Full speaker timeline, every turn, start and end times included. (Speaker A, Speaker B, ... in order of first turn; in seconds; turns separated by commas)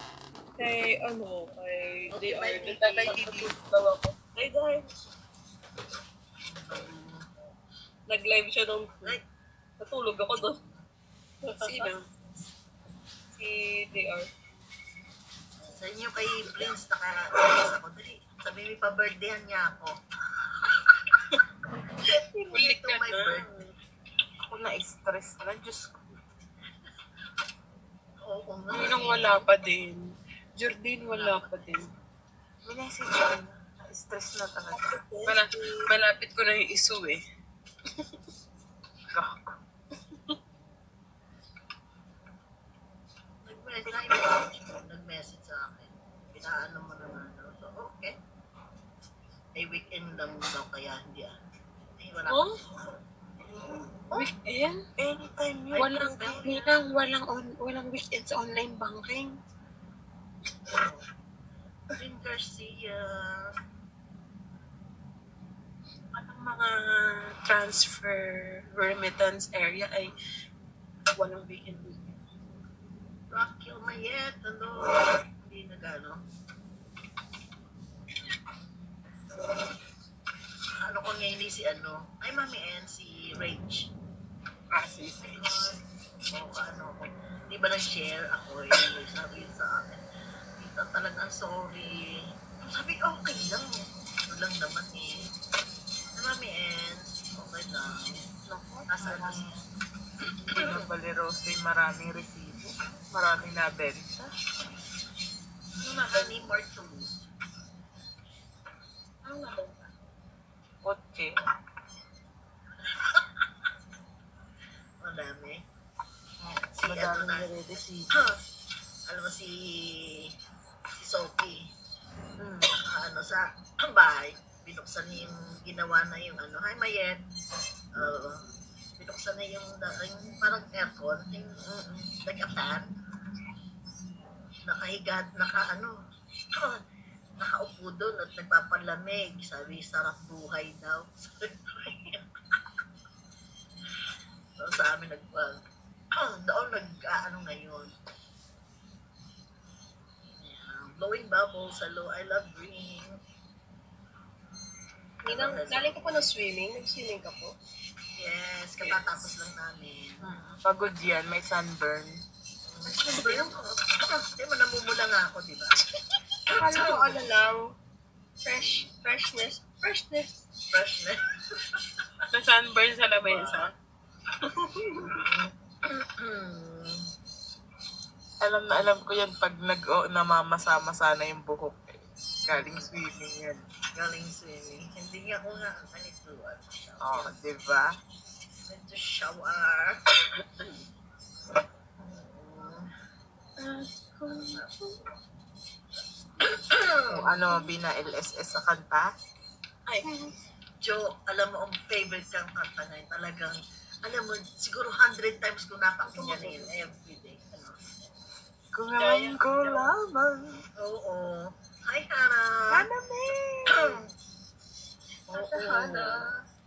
Speaker A: 0.6-4.8, Speaker B: 2.1-3.2, Speaker C: 2.7-3.6, Speaker B: 6.4-7.2, Speaker A: 8.1-9.2, Speaker A: 9.8-10.6, Speaker B: 10.4-10.8, Speaker A: 11.4-11.9, Speaker C: 11.6-12.0, Speaker A: 13.3-14.2, Speaker B: 15.8-19.9, Speaker B: 22.0-23.6, Speaker C: 22.5-23.4, Speaker D: 24.5-26.1, Speaker B: 28.2-29.4, Speaker C: 28.7-31.9, Speaker B: 31.0-31.9, Speaker D: 32.6-35.0, Speaker A: 34.7-35.8, Speaker C: 35.3-37.2, Speaker D: 39.1-39.6, Speaker B: 43.4-48.1, Speaker D: 43.9-44.2, Speaker B: 49.5-51.3, Speaker B: 52.0-52.5, Speaker C: 54.1-54.8, Speaker D: 55.0-56.4, Speaker B: 55.7-56.7, Speaker C: 55.8-59.4, Speaker B: 62.0-63.5, Speaker C: 66.1-70.1, Speaker C: 71.2-72.1, Speaker B: 73.3-76.2, Speaker B: 80.8-83.9, Speaker D: 84.7-85.4, Speaker B: 85.2-85.8, Speaker B: 86.3-90.0, Speaker B: 90.6-92.1, Speaker B: 92.6-95.1, Speaker B: 96.2-98.2, Speaker D: 98.5-99.4, Speaker B: 98.9-99.6, Speaker B: 100.5-100.8, Speaker D: 100.5-104.3, Speaker C: 105.8-106.4, Speaker B: 105.9-107.2, Speaker C: 109.2-109.9, Speaker D: 110.8-111.3, Speaker B: 115.0-115.6, Speaker D: 116.4-118.1, Speaker B: 116.7-117.5, Speaker B: 119.1-120.3, Speaker B: 121.0-121.6, Speaker D: 122.4-122.7, Speaker B: 122.8-127.2, Speaker B: 128.0-128.4, Speaker B: 129.0-132.8, Speaker B: 134.7-135.9, Speaker B: 137.4-142.2, Speaker B: 144.6-145.6, Speaker B: 146.2-147.9, Speaker B: 150.3-153.1, Speaker A: 155.2-157.5, Speaker B: 155.3-156.2, Speaker B: 158.2-160.6, Speaker D: 160.2-162.2, Speaker B: 162.7-165.8, Speaker A: 162.9-163.5, Speaker A: 166.5-167.7, Speaker B: 166.7-167.0, Speaker A: 168.4-170.3, Speaker B: 168.6-168.9, Speaker B: 170.7-171.2, Speaker C: 172.3-173.7, Speaker B: 173.2-173.6, Speaker B: 175.2-177.0, Speaker D: 178.4-181.9, Speaker D: 182.5-183.6, Speaker B: 182.5-182.9, Speaker B: 183.9-187.3, Speaker D: 187.0-187.9, Speaker B: 188.7-189.9, Speaker B: 192.0-192.9, Speaker B: 194.3-194.7, Speaker B: 196.6-197.0, Speaker D: 197.1-199.1, Speaker A: 200.1-200.3, Speaker B: 200.8-207.8, Speaker A: 206.1-206.7, Speaker D: 208.7-210.6, Speaker C: 209.0-209.9, Speaker B: 210.8-212.8, Speaker A: 215.3-216.1, Speaker B: 215.3-216.1